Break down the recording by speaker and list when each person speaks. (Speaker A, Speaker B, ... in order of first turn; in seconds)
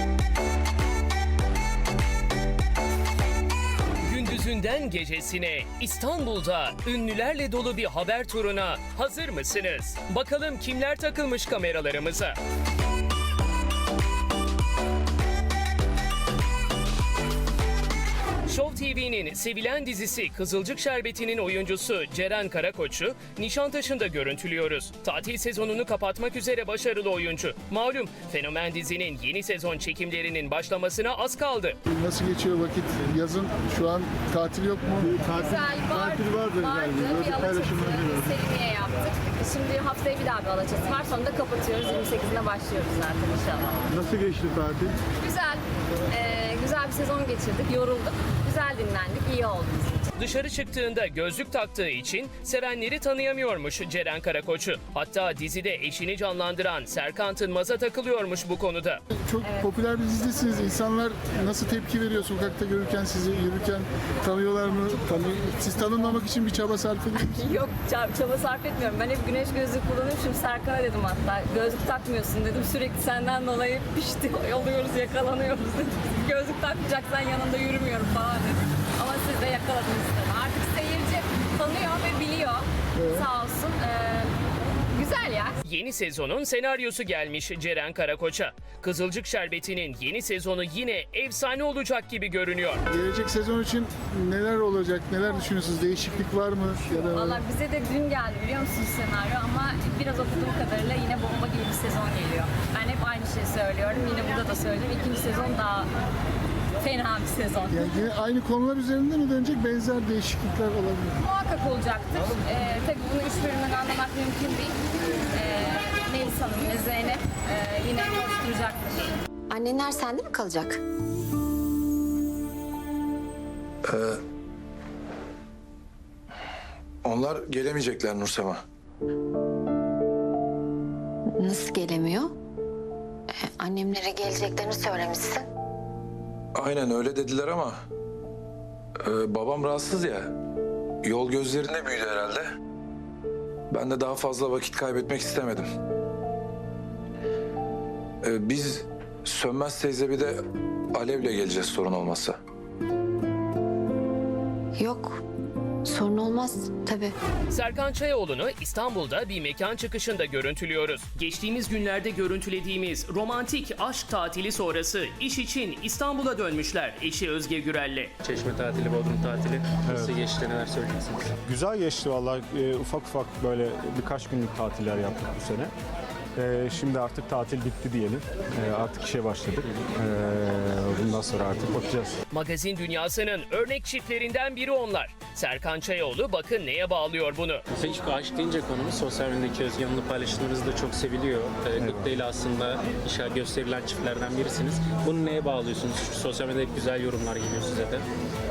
Speaker A: 4.0-12.4, 18.5-31.8, 50.2-59.0, 85.6-92.8, 157.5-168.1, 182.3-187.6
Speaker B: 31.9-35.2, 59.2-67.7, 83.0-83.3, 92.9-97.4, 107.7-111.2
Speaker C: 35.2-43.9, 45.1-50.1, 59.4-59.7, 67.3-84.3, 84.9-85.6, 97.1-105.9, 106.8-107.8, 111.2-114.7, 115.3-119.1
Speaker D: 119.5-120.8, 131.4-132.3, 133.3-135.4, 154.8-155.2, 155.9-157.2
Speaker E: 123.9-124.2, 127.0-128.6, 136.6-137.8, 139.1-140.3, 141.0-142.5, 143.7-145.7, 148.2-150.4, 150.9-152.4
Speaker F: 168.2-171.3, 187.7-198.1
Speaker G: 169.9-170.2, 171.4-175.7, 176.4-182.2, 191.8-192.2